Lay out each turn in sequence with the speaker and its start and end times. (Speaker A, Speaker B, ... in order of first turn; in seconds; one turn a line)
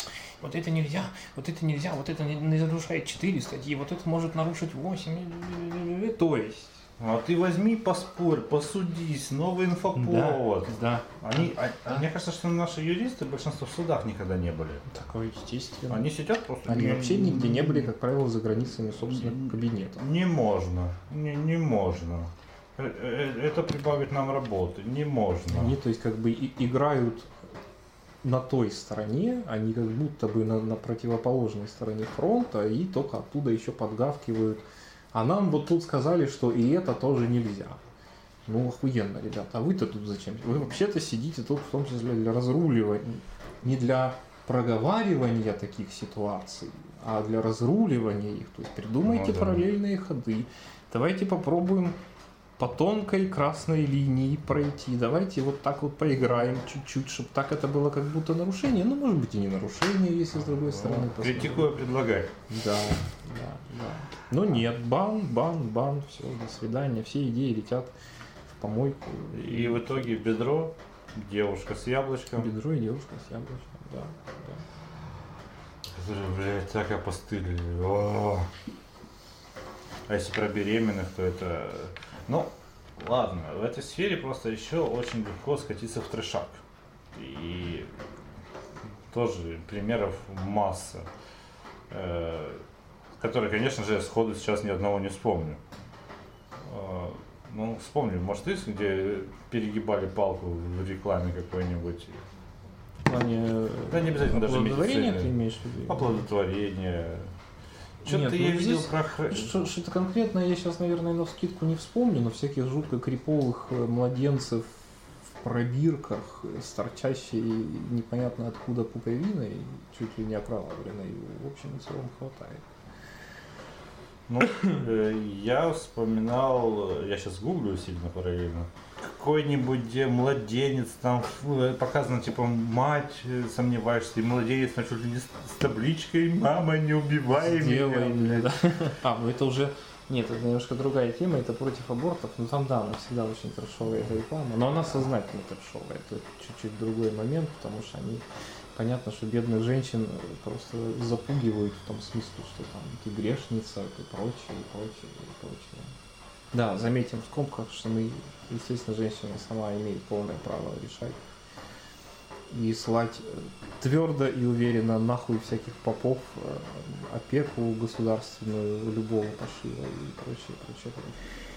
Speaker A: 0.4-6.8
Speaker B: 7.0-14.8
Speaker A: 9.9-11.2
Speaker A: 14.9-16.1
Speaker B: 15.9-17.9
Speaker A: 16.6-20.0
Speaker B: 18.9-25.8
Speaker A: 25.5-27.3
Speaker A: 28.2-37.8
Speaker A: 38.5-52.0
Speaker B: 49.0-49.7
Speaker A: 52.6-61.8
Speaker B: 60.5-62.3
Speaker A: 62.5-67.9
Speaker A: 68.5-70.1
Speaker B: 69.3-72.5
Speaker A: 72.3-74.6
Speaker B: 75.9-78.5
Speaker B: 80.1-87.9
Speaker B: 89.1-91.1
Speaker B: 91.9-92.6
Speaker B: 93.2-95.6
Speaker B: 96.6-102.2
Speaker A: 103.0-106.2
Speaker B: 103.9-105.3
Speaker B: 105.8-107.3
Speaker B: 108.0-109.5
Speaker A: 108.0-114.7
Speaker A: 115.4-122.6
Speaker B: 124.3-138.2
Speaker A: 137.4-155.9
Speaker A: 156.5-161.2
Speaker A: 162.5-171.2